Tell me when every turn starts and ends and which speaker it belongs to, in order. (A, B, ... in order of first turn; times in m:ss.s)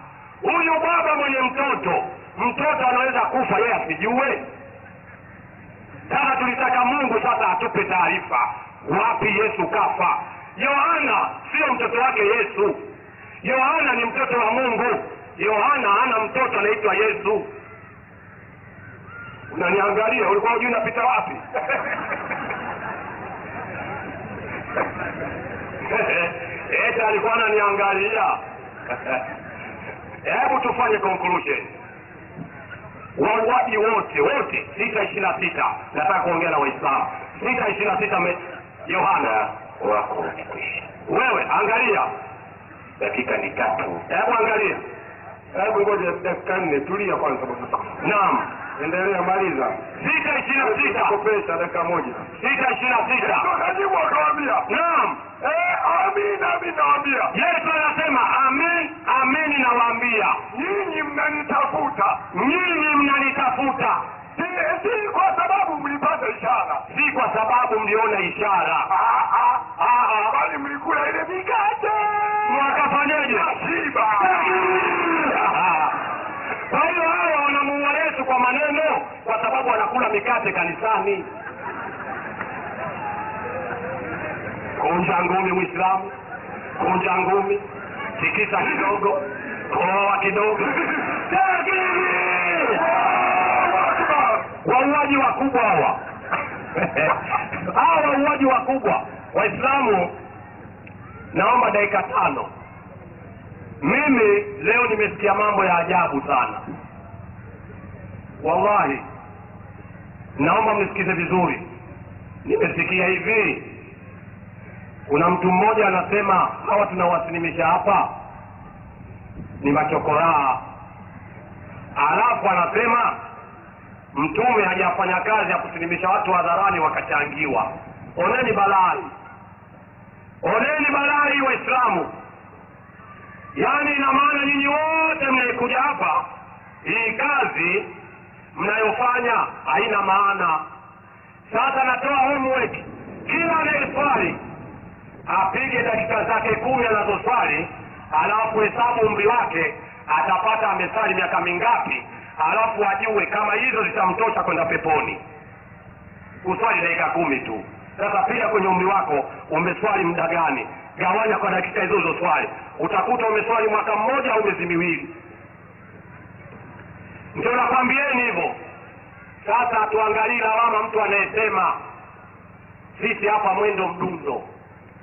0:00.4-0:04.4 A
0:06.1-0:12.8 A
0:13.4-0:17.5 A
0:19.5-0:21.4 A
0:25.8-0:28.4 A
0:30.2-0:31.7 A
0:33.2-0:39.5 A
0:39.8-0:40.9 B
0:41.1-0:42.1 A
0:43.0-0:44.0 B
0:44.1-0:44.8 A
0:45.5-0:47.9 C
0:48.0-0:48.5 A
0:48.8-0:49.8 C
0:50.0-0:51.2 A
0:50.6-0:52.3 C
0:52.4-0:53.5 A
0:53.2-0:54.7 D
0:54.7-0:55.2 A
0:55.4-0:57.3 D
0:57.3-1:00.4 A
1:00.5-1:02.2 D
1:02.3-1:04.0 A
1:04.4-1:06.8 D
1:06.9-1:08.9 A
1:08.9-1:09.6 D
1:09.8-1:10.4 A
1:10.3-1:12.7 D
1:12.4-1:13.5 A
1:13.2-1:15.1 D
1:14.2-1:16.0 A
1:16.7-1:21.3 A
1:24.8-1:26.1 A
1:26.8-1:27.6 A
1:28.2-1:32.8 A
1:32.7-1:34.5 D
1:34.6-1:36.0 A
1:36.8-1:40.1 A
1:41.3-1:42.5 A
1:43.8-1:46.6 A
1:48.4-1:49.0 A
1:50.4-1:51.7 A
1:52.4-1:53.7 A
1:55.1-1:58.1 A
1:59.6-2:00.6 A
2:02.0-2:03.2 A
2:04.1-2:09.1 A
2:10.4-2:12.1 A
2:13.5-2:16.2 A
2:16.8-2:17.9 A
2:18.5-2:20.6 A
2:21.5-2:24.4 A
2:25.3-2:35.2 A
2:36.4-2:45.1 A
2:47.3-2:48.6 A
2:49.4-2:51.8 A
2:52.9-2:54.5 A